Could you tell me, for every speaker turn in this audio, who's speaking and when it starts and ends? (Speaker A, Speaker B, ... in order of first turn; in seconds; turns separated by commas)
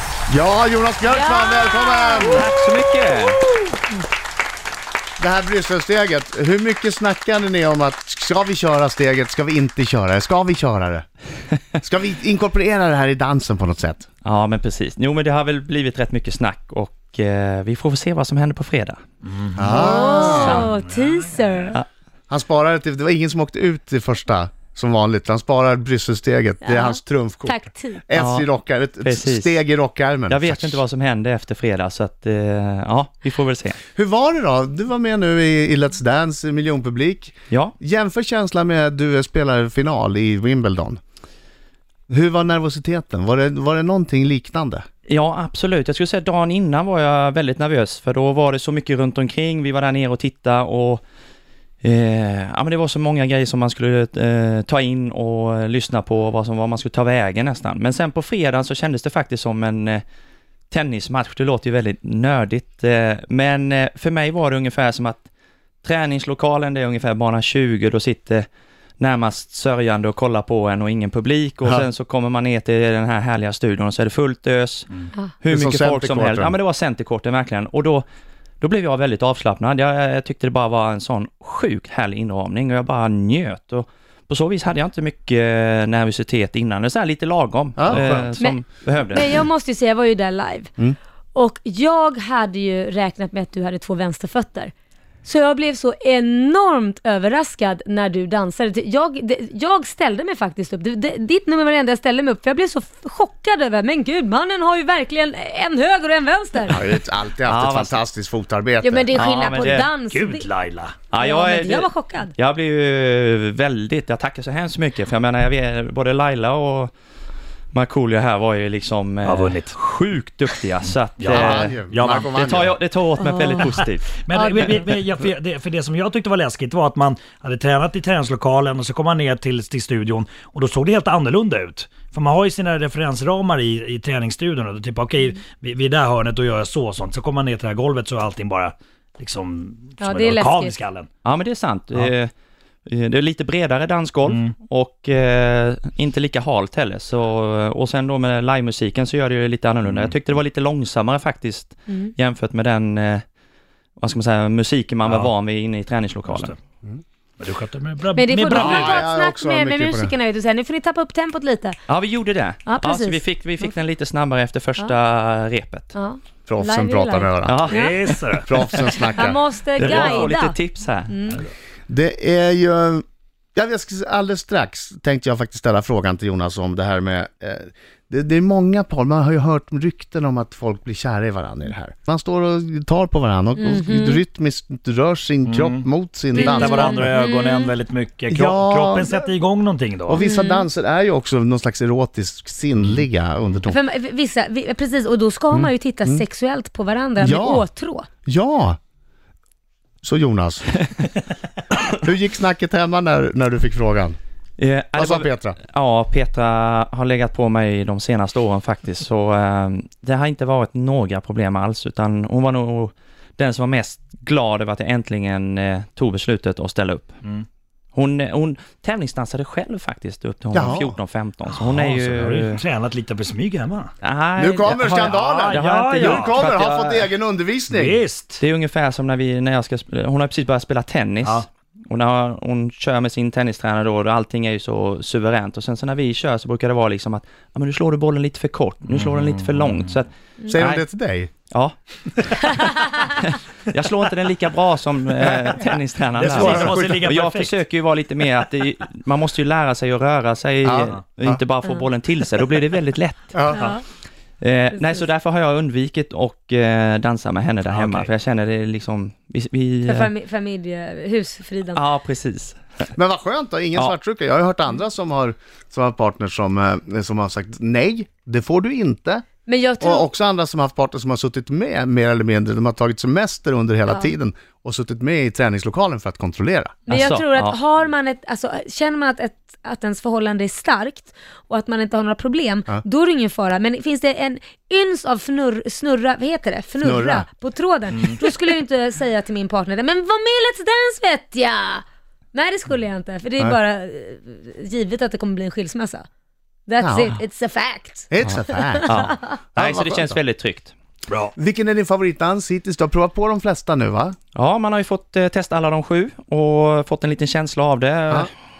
Speaker A: 0.3-2.5, Speaker B: 1.1-2.5, Speaker C: 2.2-3.4, Speaker A: 5.2-11.0, Speaker A: 11.8-14.1, Speaker C: 14.2-19.0, Speaker D: 19.2-21.8, Speaker A: 19.5-20.7, Speaker B: 19.7-21.8, Speaker C: 20.3-20.7, Speaker A: 22.3-30.8, Speaker B: 26.6-28.0, Speaker C: 28.1-28.5, Speaker C: 29.0-29.6, Speaker C: 30.3-33.8, Speaker A: 33.9-41.0, Speaker A: 42.1-44.8, Speaker C: 45.1-51.0, Speaker C: 51.8-60.0, Speaker C: 60.7-65.2, Speaker C: 65.8-68.5, Speaker C: 69.0-74.9, Speaker C: 75.4-78.0, Speaker A: 75.5-76.5, Speaker C: 78.6-89.4, Speaker A: 87.8-88.3, Speaker B: 88.4-90.7, Speaker B: 91.3-94.7, Speaker B: 95.2-106.8, Speaker A: 106.6-109.2, Speaker C: 107.4-108.0, Speaker B: 108.8-110.5, Speaker C: 109.1-109.9, Speaker D: 110.1-111.0, Speaker C: 111.1-116.9, Speaker B: 111.1-112.3, Speaker C: 117.7-124.2, Speaker D: 119.2-119.8, Speaker D: 121.2-122.4, Speaker A: 121.3-122.7, Speaker B: 123.2-123.7, Speaker D: 124.2-141.1, Speaker B: 124.3-124.9, Speaker B: 140.0-140.7, Speaker C: 141.2-142.3, Speaker C: 142.9-153.2, Speaker D: 144.2-144.5, Speaker D: 149.8-150.1, Speaker C: 154.0-156.5, Speaker D: 155.0-155.3, Speaker D: 156.3-156.5, Speaker D: 157.4-159.0, Speaker B: 158.2-161.8, Speaker A: 158.5-160.1, Speaker C: 161.9-165.9, Speaker B: 162.6-163.2, Speaker B: 165.9-168.0, Speaker A: 166.5-167.7, Speaker C: 167.4-167.8, Speaker D: 167.7-168.5, Speaker A: 168.4-169.4, Speaker B: 169.2-170.6, Speaker C: 169.8-171.1, Speaker B: 171.1-171.4, Speaker A: 171.9-173.0, Speaker A: 173.5-187.1, Speaker B: 183.6-184.2, Speaker D: 185.4-190.2, Speaker B: 186.4-187.7, Speaker A: 188.3-189.3, Speaker A: 190.1-193.8, Speaker B: 190.2-190.6, Speaker B: 193.7-198.1, Speaker A: 195.5-196.2, Speaker A: 197.2-197.7, Speaker A: 198.2-198.8, Speaker A: 200.0-200.8, Speaker A: 201.9-204.2, Speaker C: 204.6-217.2, Speaker A: 205.0-205.6, Speaker C: 217.9-222.6, Speaker A: 220.5-221.0, Speaker D: 221.4-223.9, Speaker C: 224.0-227.1, Speaker A: 224.4-228.0, Speaker D: 224.9-226.4, Speaker D: 227.7-228.4, Speaker C: 228.4-240.8, Speaker D: 238.8-239.9, Speaker A: 240.5-241.3, Speaker C: 241.5-241.8, Speaker C: 242.5-253.4, Speaker D: 246.2-247.5, Speaker A: 246.2-247.0, Speaker A: 250.6-251.4, Speaker A: 253.3-253.7, Speaker B: 253.5-253.8, Speaker C: 254.4-260.1, Speaker D: 257.7-258.1, Speaker B: 259.8-261.8, Speaker C: 261.7-262.9, Speaker A: 262.9-269.2, Speaker B: 269.4-270.1, Speaker A: 269.8-276.8, Speaker C: 276.9-277.6, Speaker B: 276.9-296.0, Speaker A: 286.8-287.2, Speaker B: 296.6-299.0, Speaker A: 296.8-297.1, Speaker A: 298.1-298.9, Speaker C: 298.8-300.7, Speaker A: 299.5-300.2, Speaker D: 301.1-301.3, Speaker A: 301.4-304.1, Speaker C: 304.3-308.3